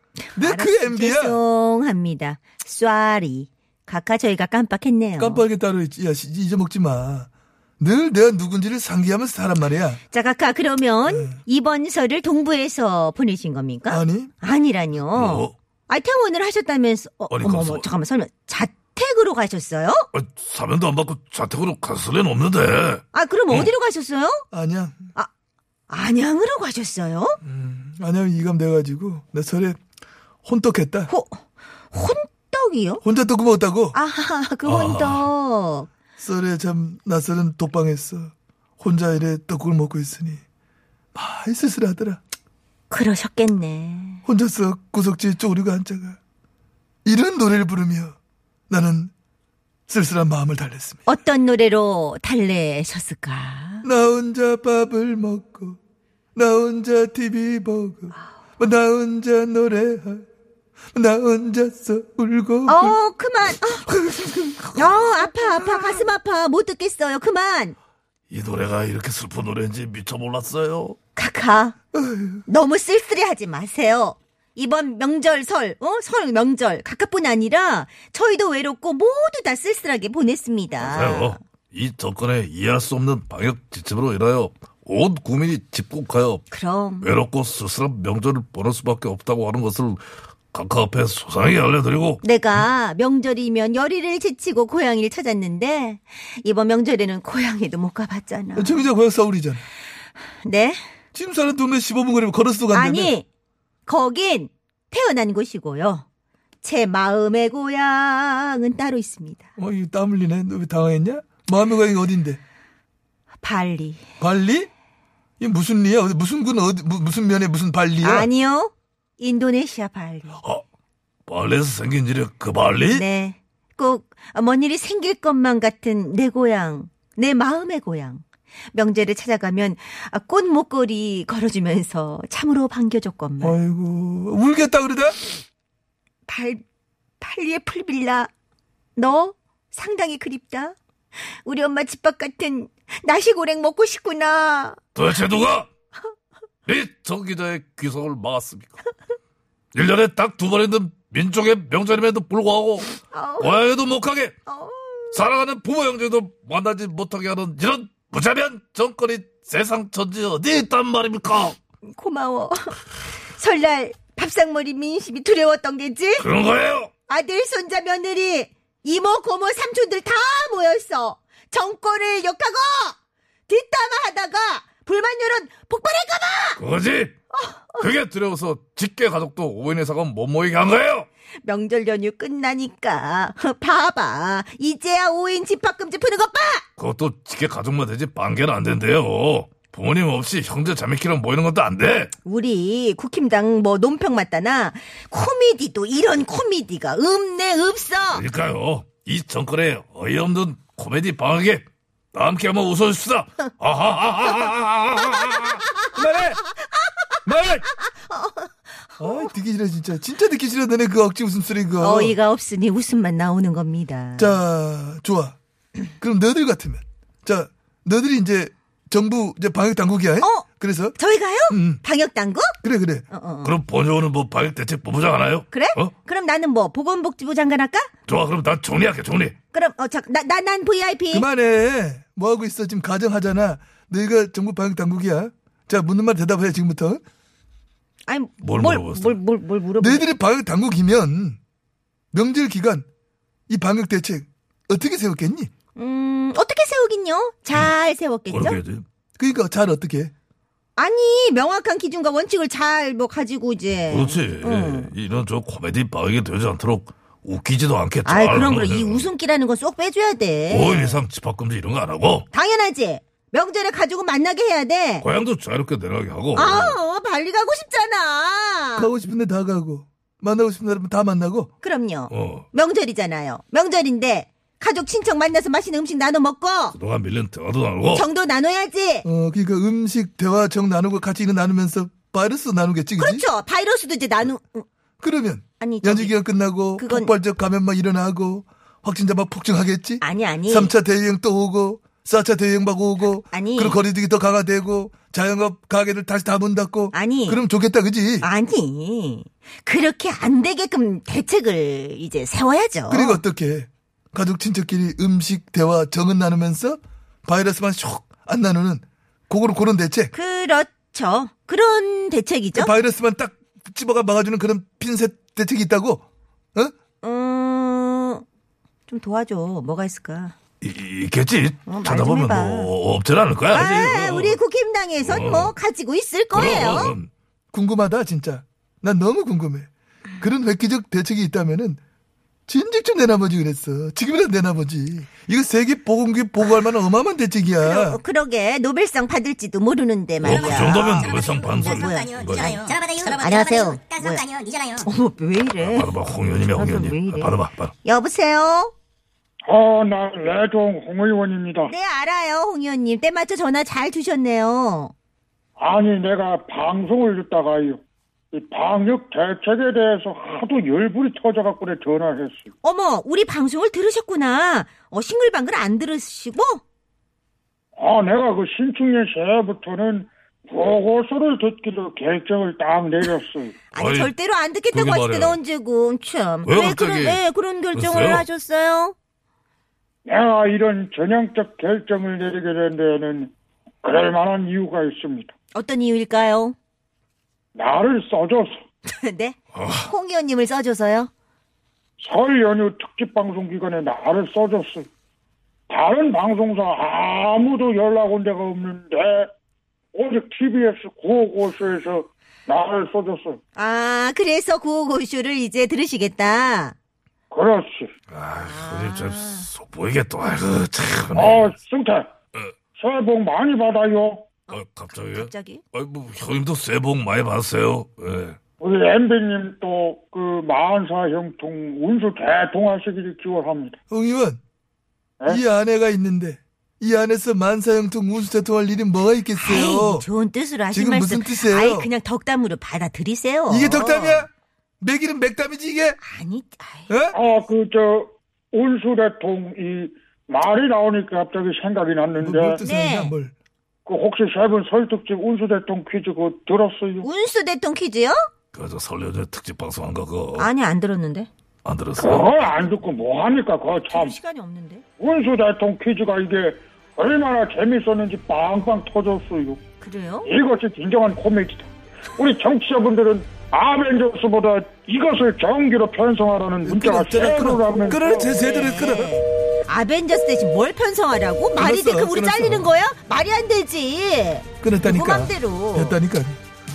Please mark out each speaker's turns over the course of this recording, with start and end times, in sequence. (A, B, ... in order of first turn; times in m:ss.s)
0:00.3-0:05.4 A
0:00.3-0:01.4 B
0:05.2-0:07.3 B
0:07.8-0:10.0 B
0:10.1-0:20.1 A
0:11.1-0:11.4 B
0:13.9-0:14.3 B
0:15.1-0:15.5 C
0:17.3-0:17.9 C
0:20.1-0:23.7 C
0:23.1-0:24.4 A
0:24.5-0:25.0 B
0:25.9-0:27.4 A
0:27.4-0:29.8 B
0:30.4-0:31.1 B
0:31.1-0:33.0 A
0:33.0-0:34.0 B
0:33.9-0:35.9 A
0:34.6-0:35.3 C
0:36.2-0:40.4 B
0:41.1-0:42.2 B
0:42.9-0:44.2 A
0:44.2-0:46.2 B
0:47.0-0:48.2 B
0:48.7-0:49.1 B
0:49.9-0:51.1 B
0:51.0-0:53.9 A
0:53.8-0:55.8 B
0:56.3-1:00.2 B
1:00.9-1:03.0 B
1:02.6-1:03.8 A
1:03.9-1:04.6 B
1:04.7-1:07.8 A
1:05.7-1:06.1 B
1:08.3-1:11.0 C
1:11.2-1:11.8 A
1:11.9-1:12.4 B
1:12.5-1:21.4 A
1:20.8-1:26.4 C
1:26.5-1:27.1 A
1:27.0-1:32.2 C
1:32.2-1:38.8 A
1:38.5-1:39.6 B
1:40.4-1:40.8 A
1:41.1-1:43.1 B
1:42.7-1:43.2 A
1:43.8-1:46.0 A
1:46.6-1:49.5 A
1:49.6-1:52.4 B
1:53.4-1:54.0 A
1:54.2-1:54.7 B
1:55.4-1:58.3 B
1:58.0-2:00.4 A
2:01.3-2:03.0 C
2:02.9-2:13.6 A
2:13.4-2:15.2 B
2:16.3-2:16.6 A
2:17.2-2:18.3 A
2:19.0-2:20.8 A
2:21.4-2:24.8 A
2:24.9-2:25.7 C
2:26.6-2:28.8 C
2:29.7-2:34.3 C
2:33.1-2:33.6 A
2:34.4-2:35.2 A
2:35.1-2:41.6 C
2:42.0-2:42.8 A
2:43.3-2:46.3 A
2:46.2-2:46.9 C
2:47.1-2:53.0 A
2:53.5-2:56.6 A
2:56.6-2:57.1 C
2:57.3-2:57.9 A
2:57.8-3:01.1 C
3:01.4-3:06.6 A
3:06.8-3:12.1 C
3:12.2-3:18.2 A
3:18.1-3:25.7 C
3:25.9-3:26.4 B
3:27.9-3:29.3 A
3:29.0-3:32.2 B
3:31.8-3:34.4 A
3:34.2-3:35.4 B
3:36.0-3:41.0 B
3:40.2-3:42.5 A
3:41.5-3:41.8 B
3:42.6-3:43.0 B
3:43.1-3:43.6 A
3:43.4-3:45.9 C
3:45.5-3:47.9 A
3:48.1-3:49.3 C
3:49.5-3:51.2 A
3:51.1-3:57.0 B
3:58.1-4:00.0 A
3:58.4-3:59.2 C
3:59.8-4:01.4 B
4:02.1-4:02.8 B
4:03.5-4:05.5 B
4:05.8-4:08.6 A
4:08.3-4:08.8 C
4:09.2-4:10.1 B
4:10.8-4:14.9 A
4:13.9-4:19.1 C
4:18.0-4:21.0 A
4:20.5-4:22.3 C
4:22.3-4:25.0 A
4:25.0-4:26.8 C
4:26.3-4:28.9 A
4:28.8-4:31.5 B
4:31.6-4:36.8 A
4:32.1-4:32.4 C
4:36.7-4:38.1 C
4:37.9-4:39.1 A
4:39.0-4:43.2 B
4:43.0-4:44.7 A
4:45.0-4:58.3 B
4:45.6-4:46.1 A
4:46.8-4:47.1 A
4:50.0-4:50.7 A
4:53.3-4:53.8 A
4:56.9-4:57.4 A
4:58.2-5:03.2 A
5:02.9-5:10.1 B
5:10.1-5:12.7 A
5:12.5-5:16.0 B
5:17.0-5:18.2 A
5:18.9-5:20.3 A
5:20.6-5:24.4 C
5:21.6-5:22.7 A
5:23.5-5:26.9 A
5:25.0-5:25.5 C
5:26.3-5:27.1 C
5:27.5-5:29.7 B
5:30.2-5:31.8 B
5:32.5-5:38.0 B
5:36.4-5:36.7 A
5:37.6-5:42.4 A
5:40.2-5:42.8 C
5:40.3-5:44.9 D
5:43.0-5:44.2 A
5:44.8-5:45.9 A
5:45.6-5:47.7 C
5:46.5-5:48.7 A
5:49.4-5:51.7 E
5:51.6-5:54.9 A
5:55.6-5:57.8 E
5:58.3-6:02.5 E
6:02.6-6:06.6 A
6:07.8-6:13.6 E
6:13.7-6:19.0 A
6:13.7-6:14.1 C
6:14.7-6:15.4 C
6:16.4-6:17.2 C
6:17.7-6:18.3 C
6:20.0-6:23.3 E
6:23.8-6:25.3 E
6:25.5-6:26.6 A
6:27.5-6:28.6 E
6:28.8-6:31.1 A
6:29.5-6:29.9 C
6:32.0-6:34.9 E
6:35.7-6:39.3 E
6:39.9-6:43.4 E
6:43.6-6:46.7 A
6:47.3-6:47.9 E
6:48.1-6:51.6 C
6:48.4-6:49.5 A
6:51.1-6:52.1 E
6:52.8-6:54.3 E
6:54.5-6:55.6 A
6:54.5-6:58.4 C
6:58.6-7:03.8 E
7:03.9-7:04.4 B
7:05.3-7:10.0 B
7:09.4-7:14.3 A
7:10.7-7:11.9 B
7:13.5-7:14.3 B
7:14.8-7:16.0 B
7:16.0-7:16.9 A
7:16.9-7:17.2 B
7:17.1-7:22.6 E
7:22.2-7:23.3 B
7:22.6-7:23.1 A
7:23.8-7:27.1 E
7:27.0-7:28.2 A
7:28.5-7:30.5 C
7:30.4-7:31.3 A
7:31.6-7:32.6 C
7:32.0-7:34.2 E
7:33.9-7:34.8 A
7:35.0-7:39.6 E
7:39.8-7:40.3 A
7:40.2-7:48.4 E
7:46.6-7:49.1 B
7:48.4-7:56.0 A
7:51.6-7:52.7 B
7:54.6-7:56.4 B